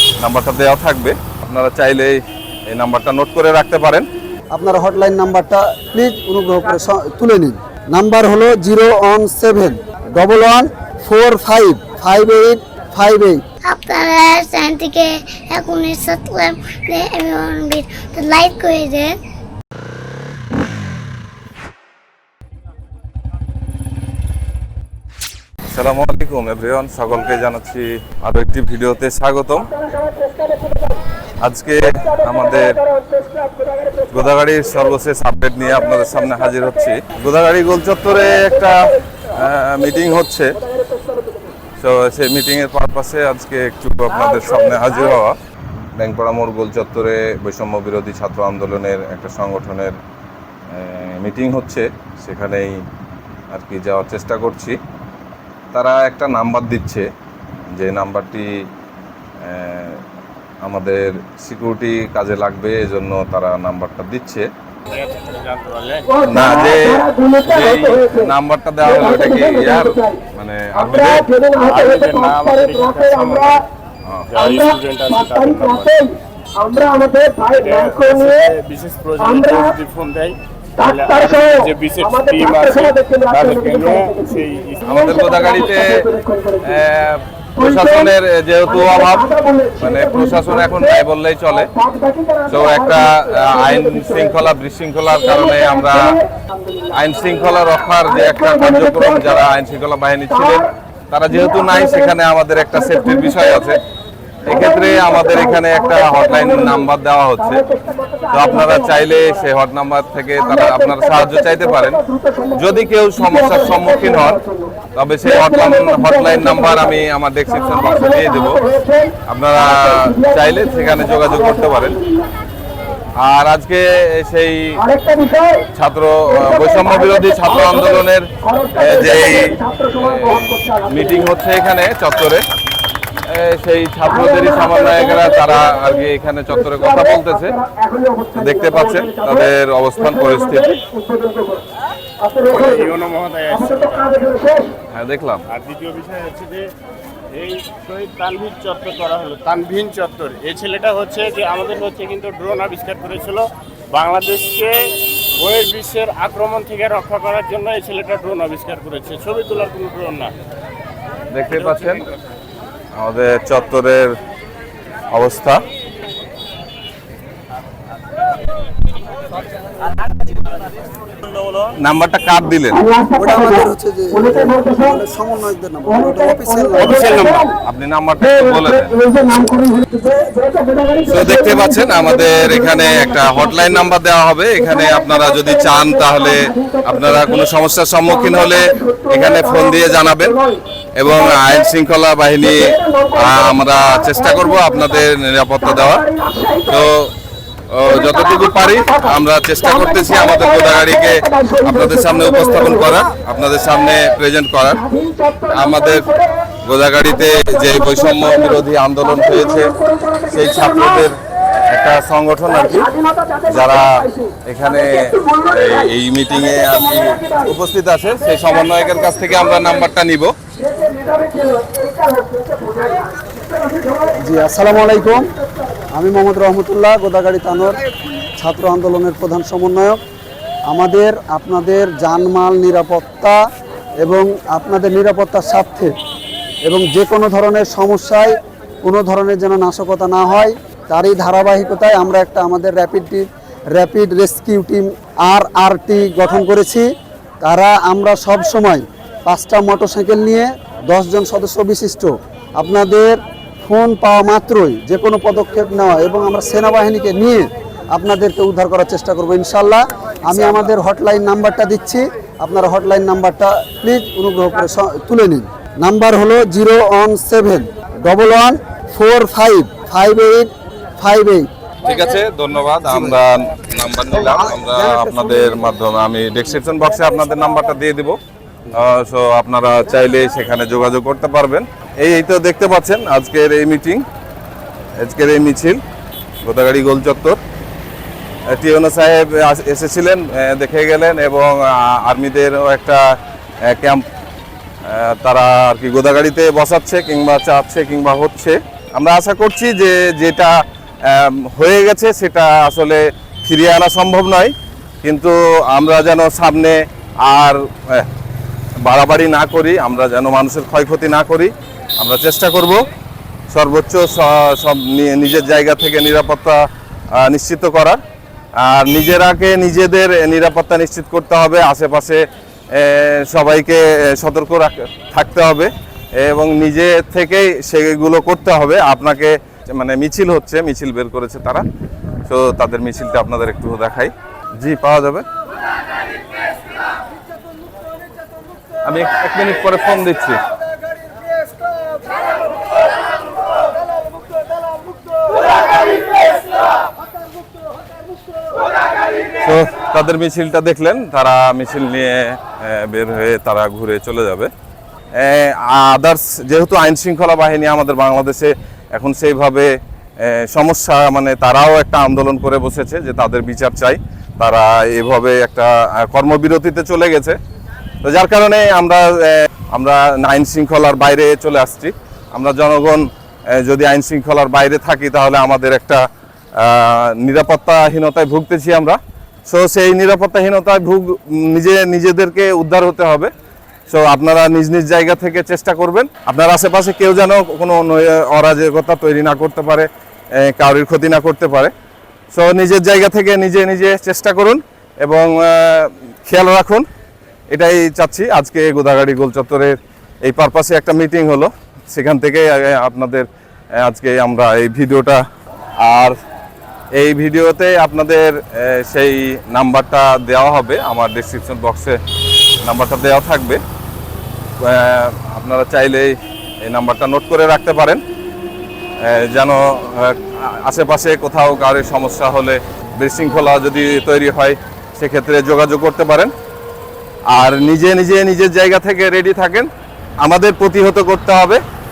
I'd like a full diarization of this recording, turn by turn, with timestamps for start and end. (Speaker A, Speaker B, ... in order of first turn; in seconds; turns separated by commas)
Speaker A: 0.2-4.0, Speaker B: 4.5-13.4, Speaker C: 13.6-19.2, Speaker A: 25.6-29.7, Speaker D: 29.8-31.0, Speaker A: 31.4-32.8, Speaker D: 31.9-34.2, Speaker A: 34.1-40.6, Speaker D: 35.7-36.7, Speaker D: 38.2-39.2, Speaker D: 40.6-41.5, Speaker A: 41.8-45.4, Speaker D: 44.3-44.8, Speaker A: 46.0-50.0, Speaker A: 50.7-52.8, Speaker A: 53.5-54.8, Speaker A: 55.7-57.1, Speaker A: 57.8-58.5, Speaker A: 59.4-60.0, Speaker A: 60.6-64.5, Speaker E: 64.9-66.0, Speaker D: 66.1-68.3, Speaker A: 66.3-71.3, Speaker D: 68.8-70.2, Speaker D: 70.8-73.6, Speaker E: 71.6-73.6, Speaker E: 74.3-75.9, Speaker D: 74.4-78.5, Speaker E: 77.6-84.8, Speaker D: 79.2-79.7, Speaker D: 80.8-86.8, Speaker A: 84.8-86.1, Speaker A: 86.6-91.7, Speaker D: 87.6-88.1, Speaker D: 88.7-91.0, Speaker D: 91.6-94.3, Speaker A: 92.5-96.1, Speaker D: 95.1-97.0, Speaker A: 96.9-103.8, Speaker D: 98.0-99.4, Speaker D: 100.3-100.6, Speaker D: 101.3-102.1, Speaker D: 102.7-103.7, Speaker A: 104.5-107.6, Speaker D: 104.5-106.8, Speaker D: 107.4-109.4, Speaker A: 108.3-112.0, Speaker D: 110.4-122.3, Speaker A: 112.5-114.4, Speaker A: 114.9-118.6, Speaker A: 119.2-122.0, Speaker A: 123.2-124.8, Speaker D: 124.8-125.7, Speaker A: 125.7-132.4, Speaker D: 126.3-131.3, Speaker A: 133.3-137.6, Speaker D: 134.1-141.7, Speaker A: 138.3-140.8, Speaker D: 142.2-142.9, Speaker E: 142.5-144.0, Speaker D: 143.5-144.7, Speaker A: 144.9-145.4, Speaker E: 145.5-146.7, Speaker E: 147.3-154.8, Speaker E: 155.4-160.3, Speaker A: 161.3-162.0, Speaker E: 161.5-162.0, Speaker A: 163.0-164.1, Speaker A: 165.1-165.6, Speaker A: 171.8-172.8, Speaker D: 172.7-175.0, Speaker B: 173.2-177.4, Speaker D: 175.9-177.5, Speaker A: 177.6-178.9, Speaker D: 178.3-183.8, Speaker A: 181.1-190.4, Speaker D: 184.6-187.4, Speaker D: 188.1-191.7, Speaker A: 191.0-196.1, Speaker D: 192.4-195.0, Speaker D: 195.6-196.9, Speaker A: 196.7-197.1, Speaker A: 197.7-204.8, Speaker D: 197.9-202.9, Speaker D: 204.7-206.5, Speaker A: 205.5-206.1, Speaker A: 206.6-209.7, Speaker D: 207.0-211.1, Speaker A: 210.3-212.9, Speaker D: 212.5-217.5, Speaker A: 213.4-220.3, Speaker D: 218.2-219.8, Speaker D: 220.6-224.3, Speaker B: 224.2-225.3, Speaker D: 224.8-225.8, Speaker B: 225.9-227.8, Speaker B: 228.4-230.0, Speaker B: 230.7-233.4, Speaker B: 234.0-235.9, Speaker B: 236.6-246.9, Speaker B: 247.4-271.5, Speaker A: 271.8-278.2, Speaker B: 272.9-273.2, Speaker B: 274.2-275.3, Speaker A: 278.7-284.0, Speaker A: 285.0-285.8, Speaker A: 286.4-287.4, Speaker A: 288.5-293.1, Speaker A: 293.7-294.1, Speaker A: 294.9-308.1, Speaker A: 308.9-312.8, Speaker A: 313.5-316.6, Speaker A: 317.2-318.0, Speaker A: 318.6-322.2, Speaker A: 322.7-331.6, Speaker A: 332.3-335.2, Speaker A: 338.9-340.4, Speaker A: 349.4-354.5, Speaker A: 355.1-367.4, Speaker A: 368.0-376.0, Speaker A: 376.6-383.3, Speaker A: 383.9-389.9, Speaker A: 390.4-391.7, Speaker A: 392.3-396.9, Speaker A: 397.5-403.3, Speaker A: 403.8-405.2, Speaker A: 405.8-406.2, Speaker A: 406.9-412.0, Speaker A: 412.6-413.6, Speaker A: 414.6-418.0, Speaker A: 419.0-426.3, Speaker A: 427.3-429.7, Speaker A: 430.2-431.6